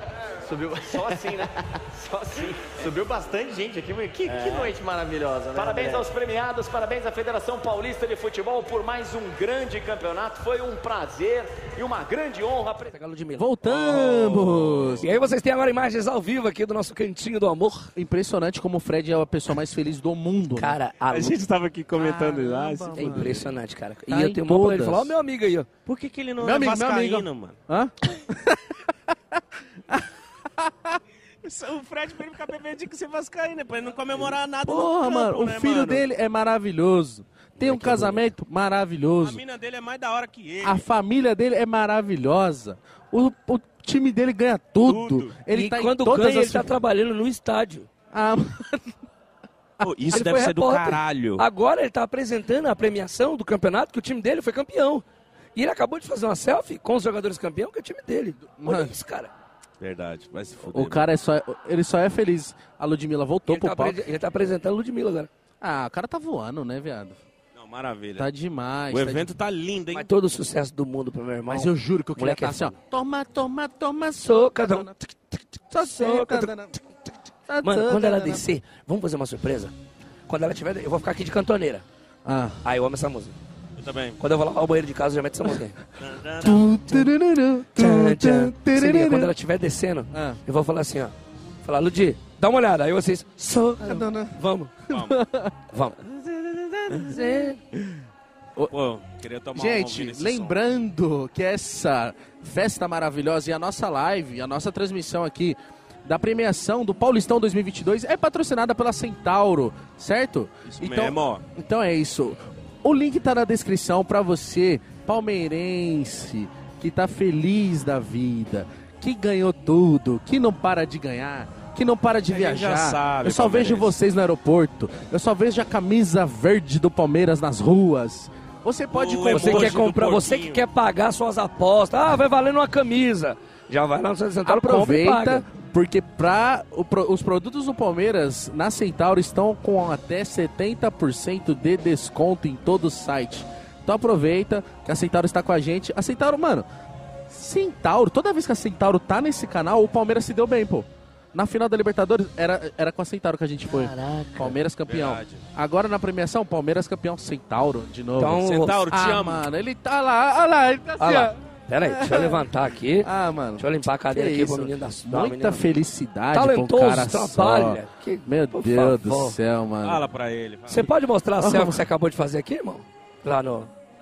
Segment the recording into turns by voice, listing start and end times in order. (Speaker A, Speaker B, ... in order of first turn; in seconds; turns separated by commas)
Speaker A: 0.4-1.5, Speaker B: 0.9-2.8, Speaker A: 2.7-6.1, Speaker B: 4.4-4.7, Speaker B: 5.5-12.9, Speaker C: 12.9-14.0, Speaker D: 13.4-15.1, Speaker E: 13.9-15.0, Speaker C: 15.0-17.9, Speaker D: 17.9-20.7, Speaker C: 20.6-21.4, Speaker E: 21.1-23.4, Speaker D: 22.0-23.4, Speaker C: 22.4-25.7, Speaker D: 24.1-25.1, Speaker E: 25.9-27.6, Speaker D: 26.4-28.8, Speaker D: 29.3-30.1, Speaker D: 30.6-31.0, Speaker E: 31.4-36.0, Speaker D: 34.6-39.4, Speaker C: 37.7-38.2, Speaker E: 39.2-40.8, Speaker D: 40.6-46.8, Speaker E: 44.8-45.3, Speaker C: 45.5-47.9, Speaker D: 48.1-49.0, Speaker D: 49.8-50.5, Speaker E: 49.8-51.4, Speaker C: 50.1-55.0, Speaker C: 55.5-59.3, Speaker D: 58.6-58.9, Speaker E: 59.8-61.0, Speaker D: 60.7-64.0, Speaker C: 63.5-65.3, Speaker D: 65.6-67.2, Speaker E: 67.5-68.3, Speaker D: 68.2-69.3, Speaker E: 68.9-70.1, Speaker C: 69.9-72.8, Speaker D: 71.5-75.0, Speaker C: 74.2-75.1, Speaker D: 75.7-76.8, Speaker C: 75.7-76.5, Speaker D: 77.5-78.4, Speaker C: 77.6-79.7, Speaker C: 80.3-81.8, Speaker D: 82.2-82.6, Speaker C: 82.6-83.3, Speaker E: 83.8-84.2, Speaker C: 84.2-85.8, Speaker E: 86.0-86.7, Speaker D: 86.4-89.3, Speaker C: 87.7-94.8, Speaker D: 90.1-90.4, Speaker D: 93.8-95.5, Speaker E: 94.9-95.2, Speaker C: 95.7-96.0, Speaker D: 96.1-97.8, Speaker C: 97.0-97.5, Speaker E: 98.7-100.5, Speaker D: 99.5-129.8, Speaker E: 110.8-111.4, Speaker E: 122.3-123.9, Speaker E: 128.9-130.6, Speaker C: 129.3-135.4, Speaker D: 134.4-146.7, Speaker D: 147.3-162.5, Speaker C: 153.7-154.6, Speaker E: 154.9-155.4, Speaker C: 158.2-158.8, Speaker E: 158.4-159.4, Speaker C: 161.0-165.6, Speaker D: 163.0-170.0, Speaker C: 166.3-169.4, Speaker E: 169.8-170.8, Speaker C: 170.7-173.7, Speaker D: 171.4-171.9